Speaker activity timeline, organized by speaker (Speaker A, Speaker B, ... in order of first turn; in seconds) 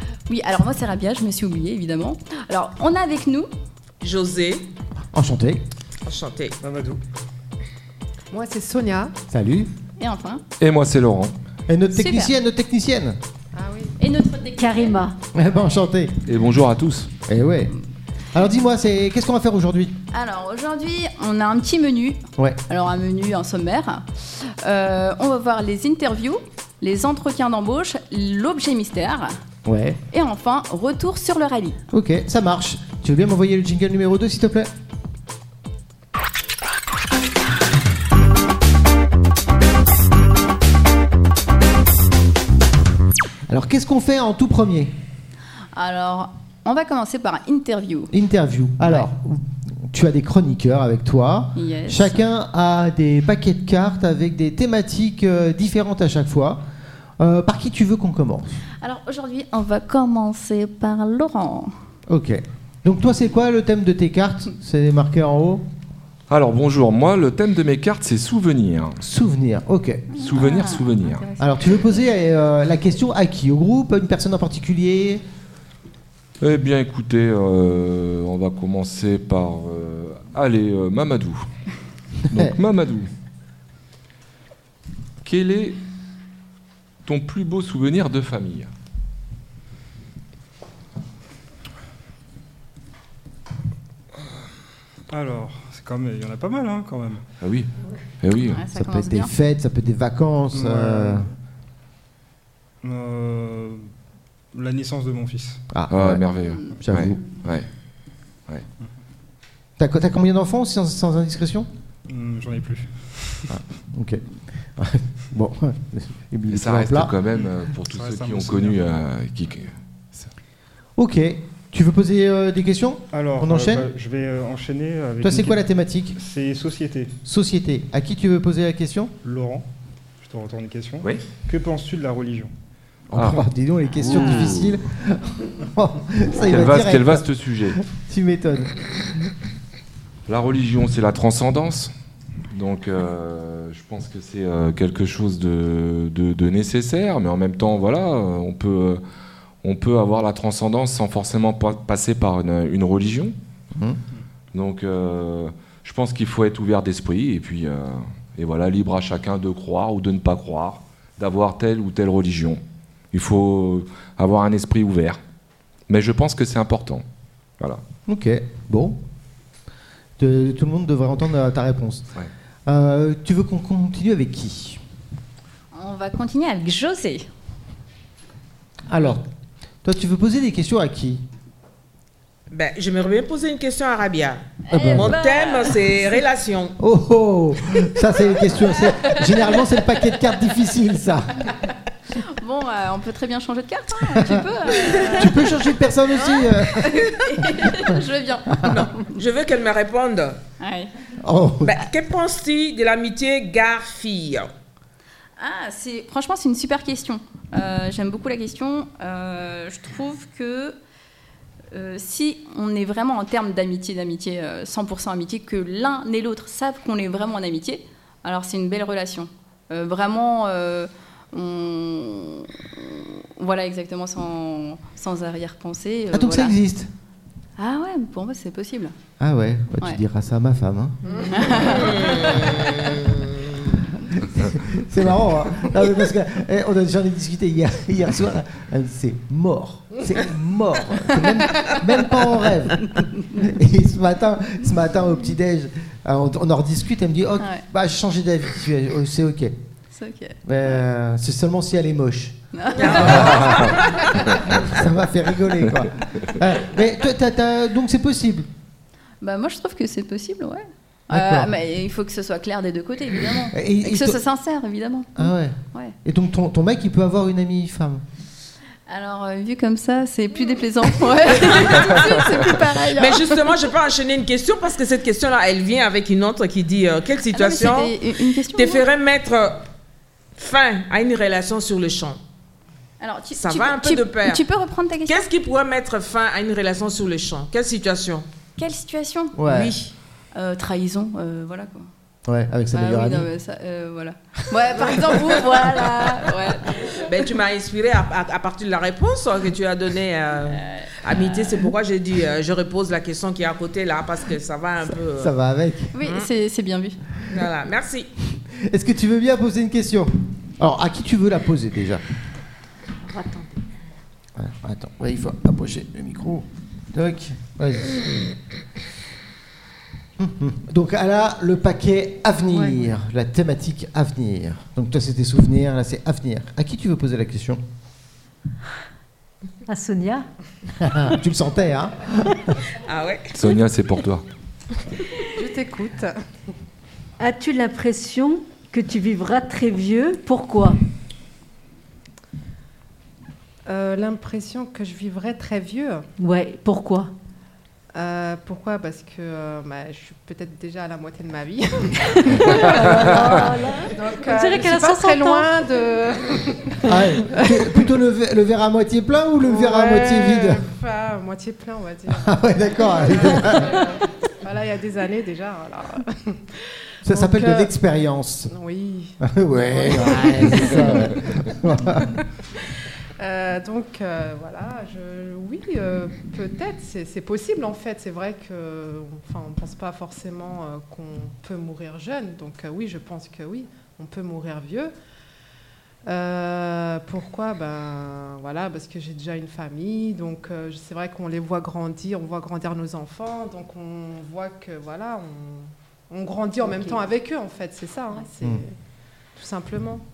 Speaker A: 0.3-3.5, 10.0-10.4, 11.9-12.3, 14.0-15.1, 20.1-29.4, 30.1-31.8, 45.8-48.1, 51.5-52.2, 58.8-61.7, 70.1-71.5, 98.5-99.3, 106.5-106.8, 175.7-177.3, 184.7-185.8, 192.1-195.5, 196.1-199.0, 200.6-200.9, 205.4-210.8, 211.7-226.6, 227.6-228.9, 231.3-232.7, 249.9-250.4, 252.5-253.7, 259.2-265.9, 268.9-273.6, 277.3-278.8, 283.0-285.3, 288.6-289.4, 290.3-291.9, 292.7-297.1, 300.5-300.9, 305.9-307.0
Speaker B: 4.0-4.7, 6.0-6.6, 182.5-186.8, 198.7-200.4, 201.6-204.5, 231.1-233.6, 252.8-254.1, 272.9-279.7, 280.4-282.2, 283.3-284.4, 285.1-288.2, 289.5-289.9, 296.8-305.3, 306.0-306.3, 307.3-308.1, 332.7-333.5
Speaker C: 5.1-5.6, 9.3-9.7, 11.7-13.2, 15.3-16.2, 17.3-17.7, 18.3-20.0, 29.6-30.0, 31.9-34.7, 43.5-45.0, 48.1-56.6, 57.2-58.6, 62.1-65.7, 69.0-70.1, 71.4-75.2, 82.3-82.5, 98.7-101.3, 105.7-106.2, 106.8-107.2, 109.8-111.7, 113.5-117.1, 121.0-123.9, 125.2-126.2, 127.2-129.1, 133.1-139.3, 168.1-169.0, 170.2-172.1, 172.7-174.8, 178.9-179.3, 179.8-181.2, 184.7-185.2, 186.8-191.6, 194.2-198.0, 201.2-201.9, 226.1-226.9, 229.2-231.7, 234.1-249.5, 250.4-258.5, 261.1-261.5, 263.5-264.2, 265.2-268.0, 289.4-289.7, 292.3-293.3, 305.1-305.9, 308.4-312.0, 314.4-318.1, 320.2-327.6, 330.8-332.6, 356.8-360.6, 362.1-363.9, 367.1-368.5, 369.2-372.2
Speaker D: 6.6-7.0, 95.1-97.2, 100.5-101.3, 102.8-103.9, 104.5-105.6, 112.1-113.6, 117.9-118.9, 123.1-125.6, 126.2-127.1, 129.2-129.7, 130.2-132.5
Speaker E: 8.3-9.2, 13.5-13.9, 335.3-336.2, 343.7-346.1, 347.9-357.8, 359.4-367.7, 368.5-371.3, 373.2-384.9, 386.1-398.8, 399.4-400.1
Speaker F: 10.6-11.3, 16.3-17.1, 66.3-69.0, 70.2-71.2, 76.4-81.5, 82.3-83.1, 85.2-85.8, 87.1-88.7, 97.4-98.6, 105.9-107.7, 116.5-120.3, 133.1-133.4, 134.0-134.8, 136.4-137.8, 140.3-141.9, 142.5-149.0, 149.6-153.3, 154.5-162.6, 163.1-165.2, 165.9-167.0, 333.3-334.2
Speaker G: 14.6-15.2, 313.0-313.8, 322.5-322.9, 329.7-330.3, 337.2-340.8, 346.2-347.1, 352.3-355.5